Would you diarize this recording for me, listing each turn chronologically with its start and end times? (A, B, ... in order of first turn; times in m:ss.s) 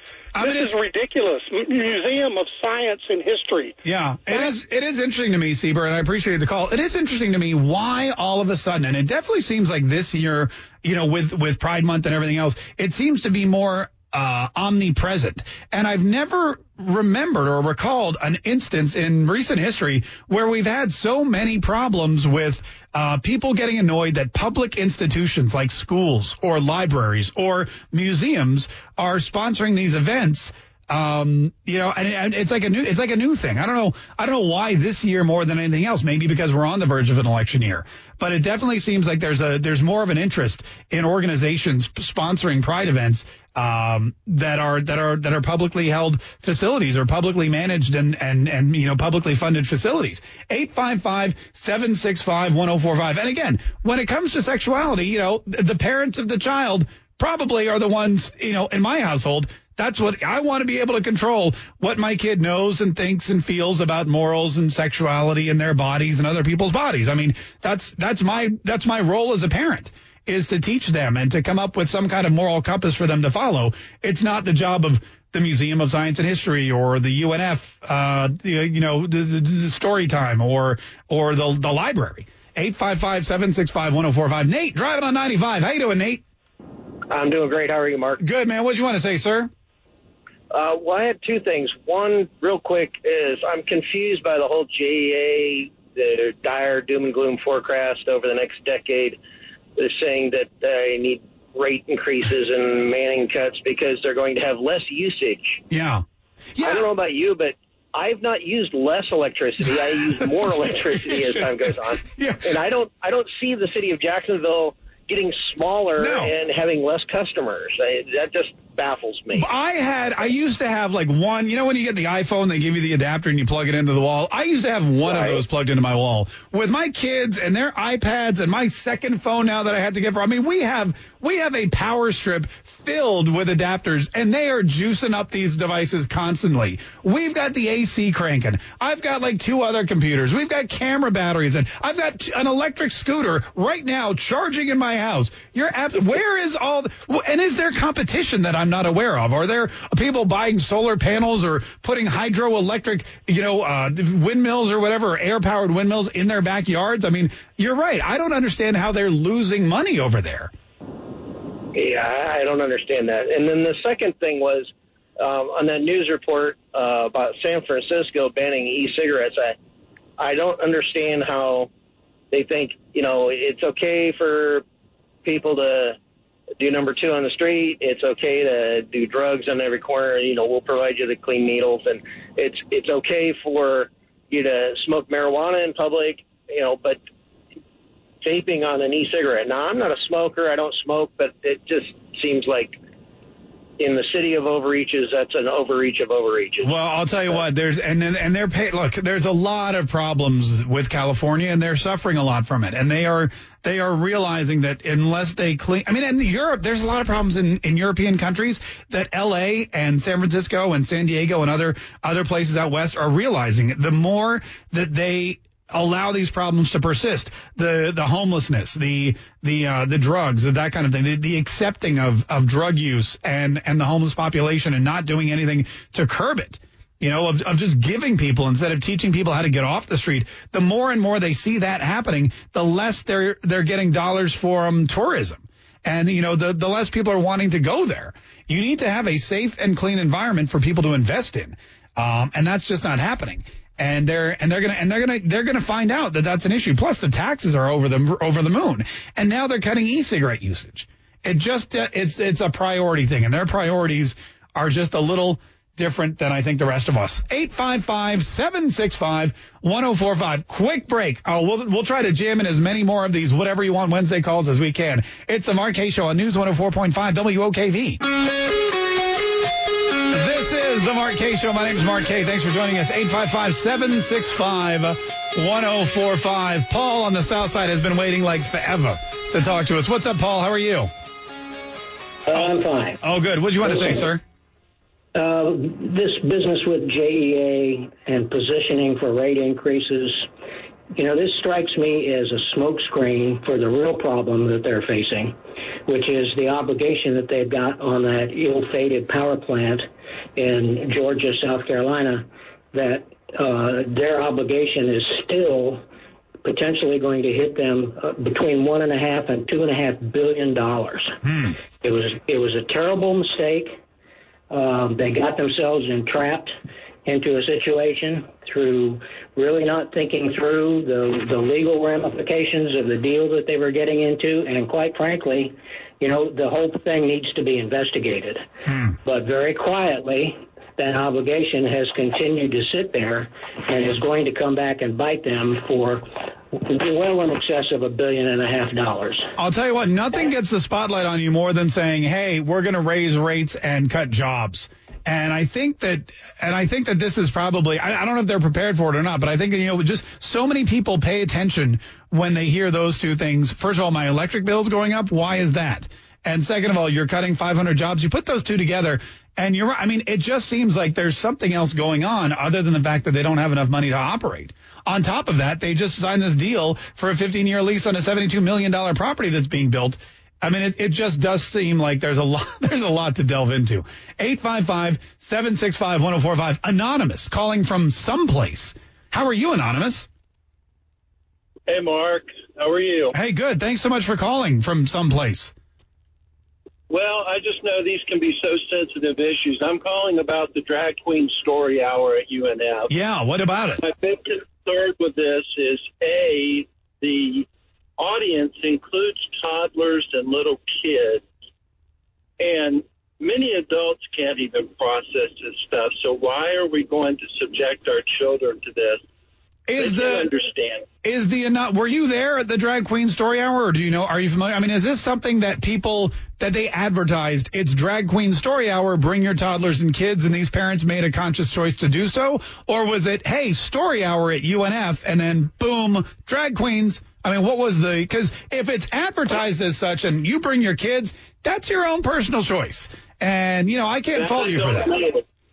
0:00.4-0:00.8 A
0:00.4-0:03.8 B
0:03.8-1:26.2 A
1:27.1-1:28.2 C
1:28.2-1:29.5 A
1:30.5-1:39.2 C
1:39.8-1:45.6 C
1:45.7-1:46.0 A
1:46.6-1:46.9 A
1:46.6-1:59.5 C
1:50.5-1:52.4 A
1:56.0-1:56.3 A
1:59.3-2:40.5 A
2:05.0-2:05.4 C
2:41.7-2:49.6 C
2:50.2-2:51.7 C
2:52.3-2:54.6 C
2:55.2-2:56.0 C
2:56.6-3:07.0 C
3:08.2-3:12.8 C
3:13.8-3:16.7 C
3:16.6-4:28.0 A
4:30.1-4:40.9 A
4:42.3-4:43.0 D
4:42.3-4:44.2 A
4:43.6-4:44.0 D
4:45.2-4:50.3 D
4:51.0-5:05.8 D
5:06.4-5:13.8 D
5:14.5-5:16.6 D
5:17.1-5:39.3 D
5:39.4-6:20.1 A
6:21.7-6:23.1 E
6:23.1-6:25.5 A
6:26.9-6:32.9 E
6:32.9-6:33.8 A
6:33.8-6:37.4 E
6:38.0-6:41.2 E
6:42.4-6:49.0 E
6:49.7-6:50.3 A
6:49.8-6:50.8 E
6:51.0-7:15.0 A
7:14.1-7:15.2 E